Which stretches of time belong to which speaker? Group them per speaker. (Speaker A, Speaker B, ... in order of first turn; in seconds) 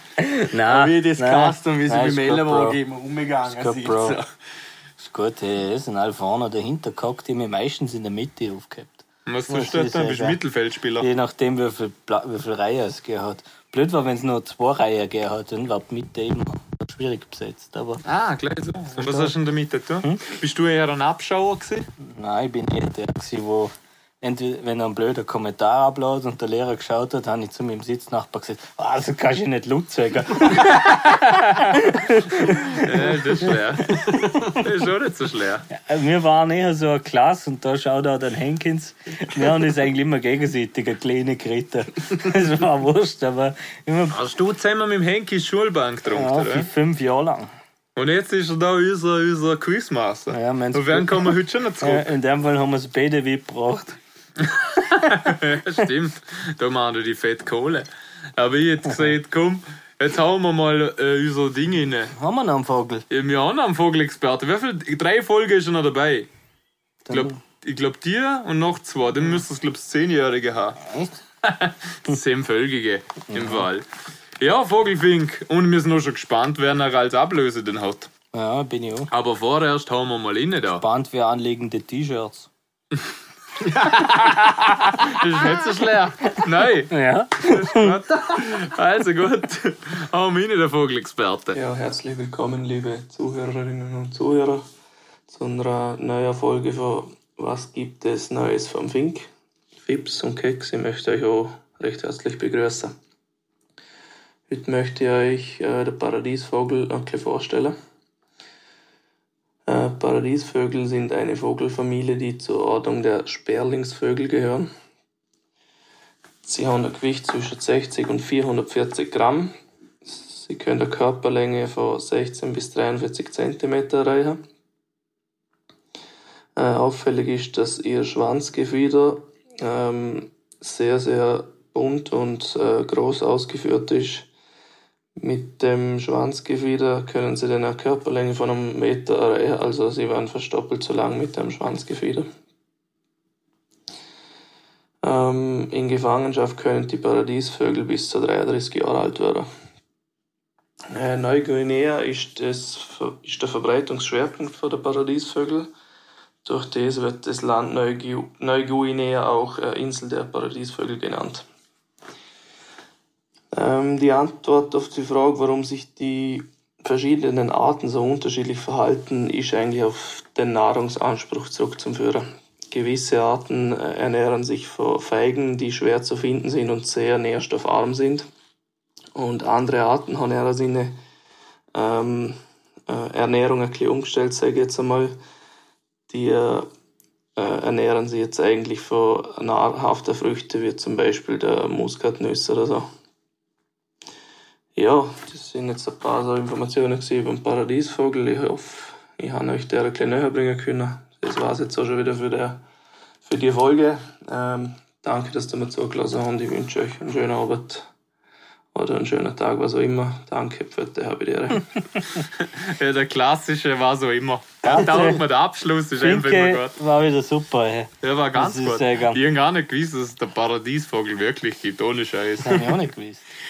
Speaker A: 0.2-2.8, 3.5-4.2, 5.0-10.4, 11.0-18.0, 19.0-19.3, 22.0-34.6, 35.7-44.2, 46.1-47.5, 50.3-54.0, 62.1-63.0, 67.1-67.4, 70.8-71.2, 73.3-73.6, 78.3-79.1, 80.8-82.5, 86.9-88.0, 214.6-215.2, 216.0-219.2, 222.4-223.3
Speaker B: 0.6-4.3
Speaker C: 9.3-11.1, 18.1-21.9, 32.6-35.7, 44.1-46.7, 48.0-52.1, 54.5-62.1, 63.1-66.3, 67.1-70.8, 71.4-73.8, 74.4-78.1, 79.1-80.8, 83.7-91.6, 212.3-216.8, 218.0-222.8
Speaker D: 91.5-94.7, 95.3-99.3, 99.8-102.9, 104.5-107.8, 109.7-114.7, 116.4-119.5, 120.0-124.4, 126.6-134.3, 135.2-142.3, 145.0-149.5, 150.9-155.7, 156.4-161.4, 163.5-178.3, 179.2-181.0, 181.8-185.2, 186.1-186.7, 187.4-192.9, 194.8-202.6, 203.2-207.9, 208.7-211.8